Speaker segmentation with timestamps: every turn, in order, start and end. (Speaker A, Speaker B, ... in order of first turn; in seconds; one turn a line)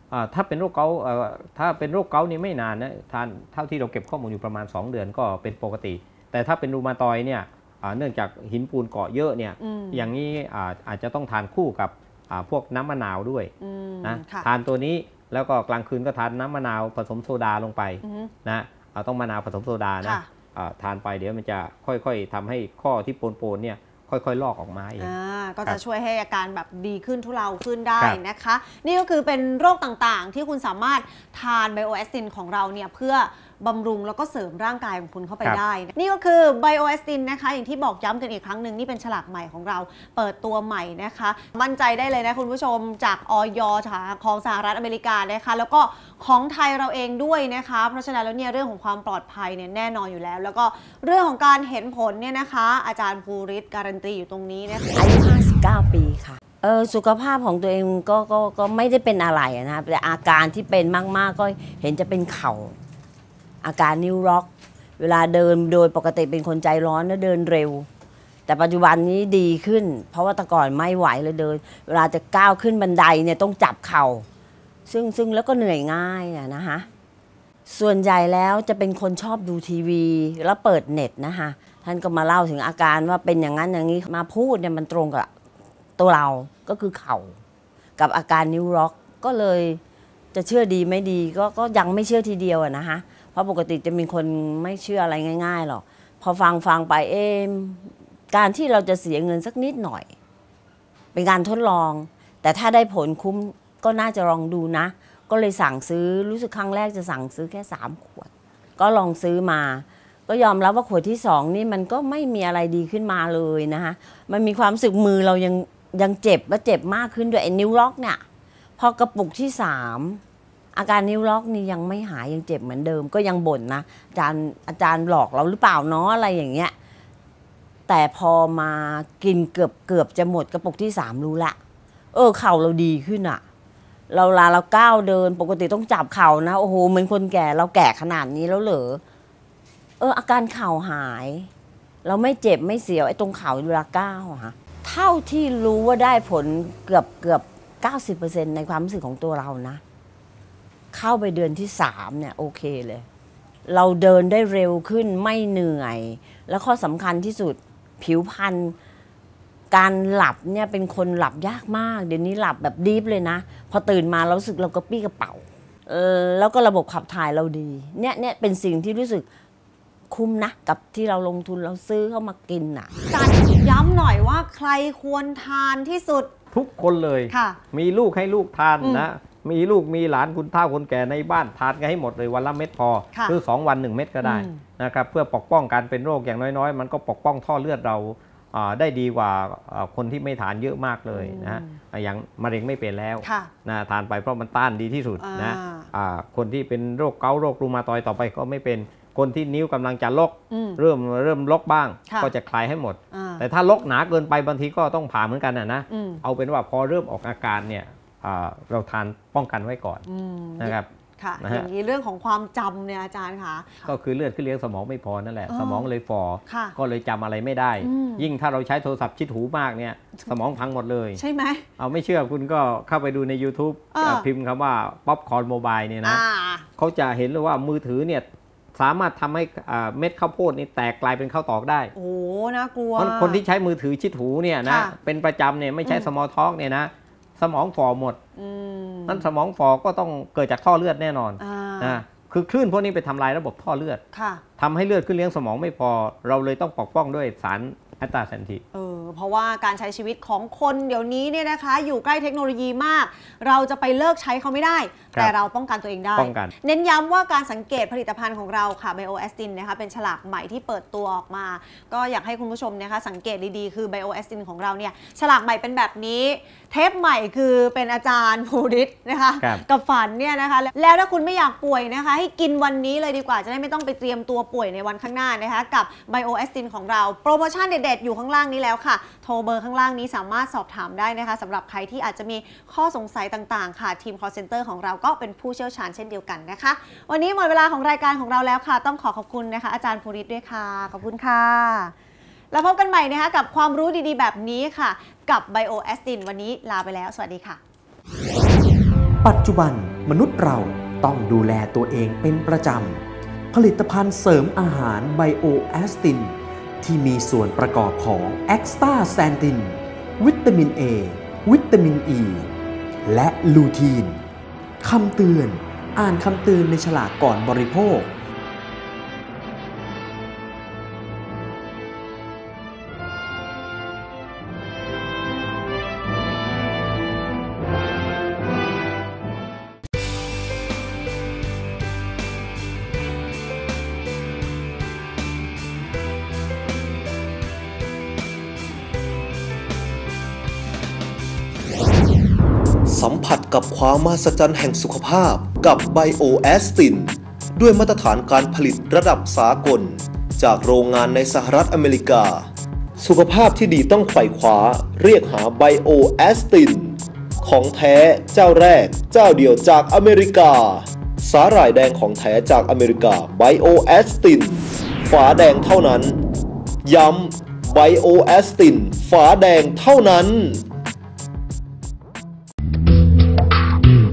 Speaker A: 0.1-13.5
Speaker B: 9.6-10.1
Speaker B: 13.6-14.5
Speaker A: 14.0-25.1
Speaker B: 18.0-18.3
Speaker B: 25.0-54.9
Speaker C: 55.0-62.8
Speaker C: 63.6-67.9
Speaker C: 68.5-74.3
Speaker C: 74.9-76.9
Speaker C: 77.7-85.3
Speaker C: 86.0-87.4
Speaker C: 88.0-89.8
Speaker C: 90.3-100.1
Speaker C: 101.1-118.2
Speaker C: 118.8-120.2
Speaker C: 120.8-126.7
Speaker C: 127.9-131.6
Speaker C: 132.1-133.4
Speaker C: 134.1-139.0
Speaker C: 140.0-141.5
Speaker C: 142.0-149.8
Speaker C: 150.9-153.1
Speaker C: 153.7-158.8
Speaker C: 159.7-169.3
Speaker C: 170.1-172.9
Speaker B: 173.1-176.3
Speaker A: 176.5-210.0
Speaker B: 177.3-177.6
Speaker B: 184.2-184.6
Speaker B: 191.1-191.8
Speaker B: 193.2-193.5
Speaker B: 195.2-195.9
Speaker B: 200.5-200.8
Speaker B: 203.1-203.4
Speaker B: 205.9-206.2
Speaker B: 210.1-213.9
Speaker A: 210.6-210.9
Speaker A: 211.4-211.7
Speaker A: 213.9-221.2
Speaker B: 215.5-215.9
Speaker B: 216.5-216.8
Speaker B: 217.8-218.3
Speaker B: 221.2-221.7
Speaker A: 221.8-226.2
Speaker B: 223.9-224.2
Speaker B: 226.0-226.7
Speaker A: 226.8-228.2
Speaker A: 228.8-231.9
Speaker B: 231.9-233.4
Speaker A: 233.0-238.2
Speaker B: 234.7-234.9
Speaker B: 238.4-239.3
Speaker A: 239.1-244.0
Speaker B: 241.4-242.0
Speaker B: 244.1-244.4
Speaker A: 244.6-248.6
Speaker B: 248.7-291.9
Speaker A: 256.2-256.5
Speaker B: 292.5-297.6
Speaker D: 299.2-312.5
Speaker D: 313.1-314.2
Speaker D: 314.8-318.1
Speaker E: 342.9-352.5
Speaker E: 353.0-366.2
Speaker E: 366.8-370.6